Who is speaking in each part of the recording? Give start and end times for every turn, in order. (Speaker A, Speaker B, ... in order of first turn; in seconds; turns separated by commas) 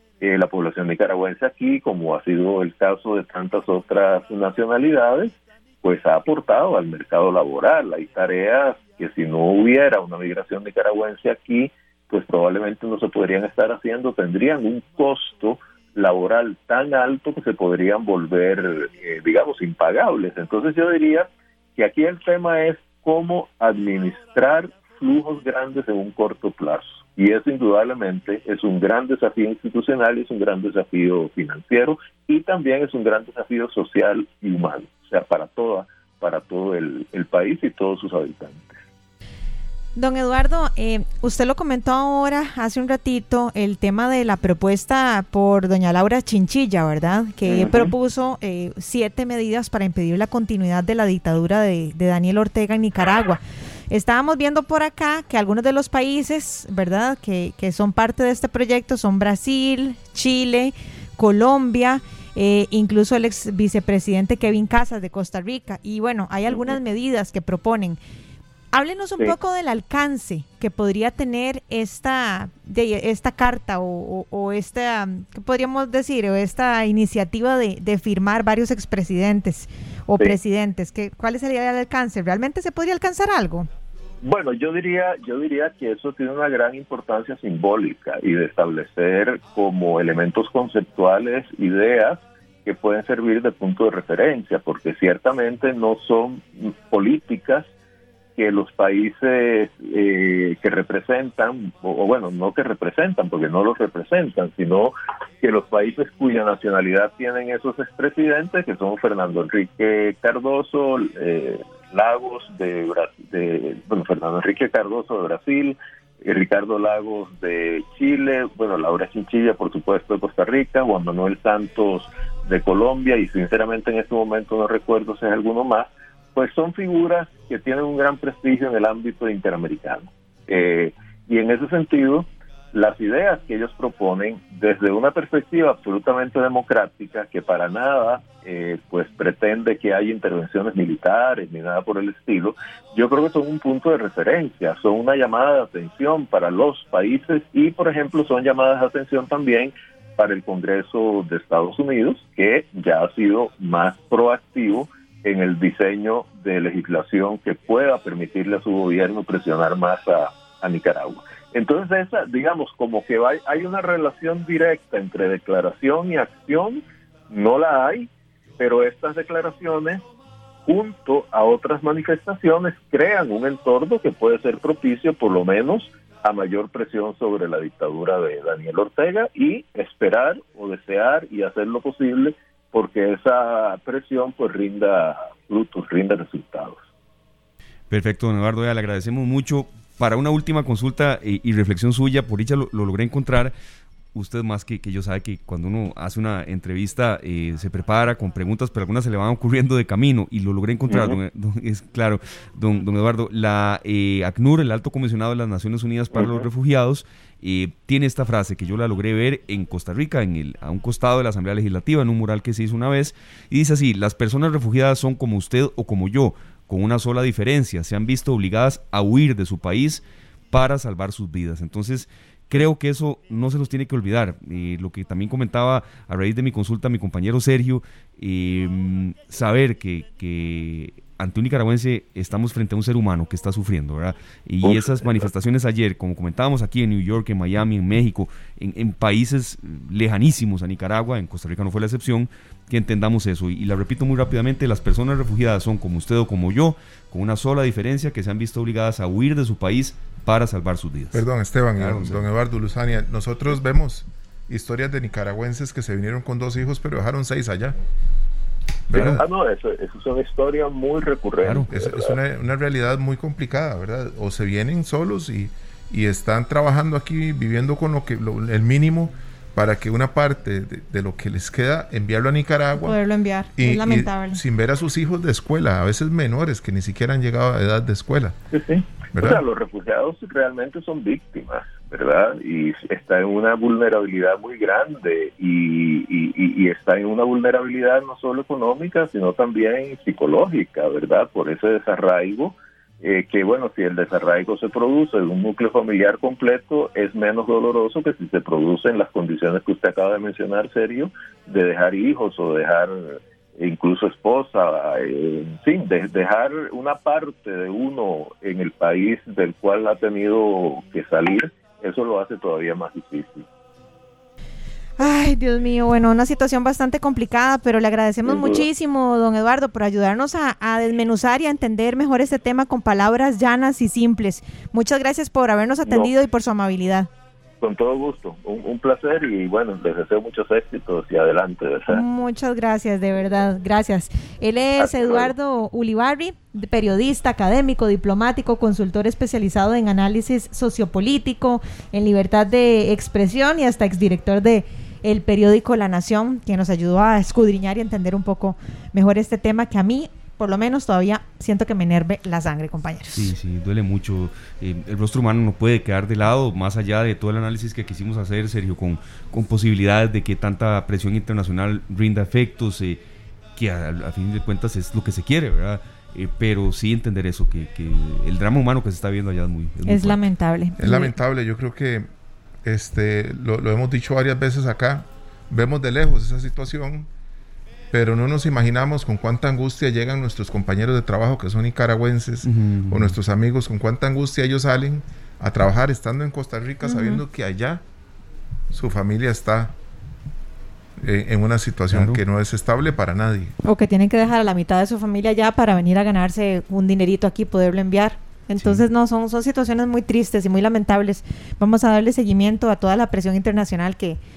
Speaker A: 0.2-38.8, Speaker B: 40.0-68.0, Speaker A: 47.4-47.9, Speaker A: 66.5-66.7, Speaker B: 68.7-83.7, Speaker A: 84.2-97.7, Speaker A: 98.4-170.0, Speaker A: 170.7-186.8, Speaker C: 187.9-193.5, Speaker C: 194.1-251.2, Speaker A: 200.9-201.2, Speaker A: 206.1-206.5, Speaker A: 234.6-235.3, Speaker D: 251.1-257.8, Speaker C: 251.8-252.2, Speaker D: 258.9-259.2, Speaker C: 258.9-259.2, Speaker A: 258.9-262.1, Speaker C: 261.4-261.7, Speaker D: 261.7-273.0, Speaker B: 272.8-274.4, Speaker D: 273.6-278.4, Speaker A: 278.5-313.4, Speaker D: 279.1-279.4, Speaker B: 315.0-327.1, Speaker A: 318.2-318.6, Speaker A: 325.8-326.1, Speaker A: 327.6-332.0, Speaker B: 331.9-353.3, Speaker A: 334.8-335.3, Speaker C: 353.1-363.0, Speaker C: 363.6-370.2, Speaker B: 369.9-371.1, Speaker D: 370.8-372.1, Speaker D: 372.6-377.1, Speaker D: 377.9-387.8, Speaker C: 382.4-383.1, Speaker B: 386.8-387.2, Speaker D: 388.7-389.7, Speaker D: 391.0-393.5, Speaker C: 391.9-392.2, Speaker B: 393.6-404.2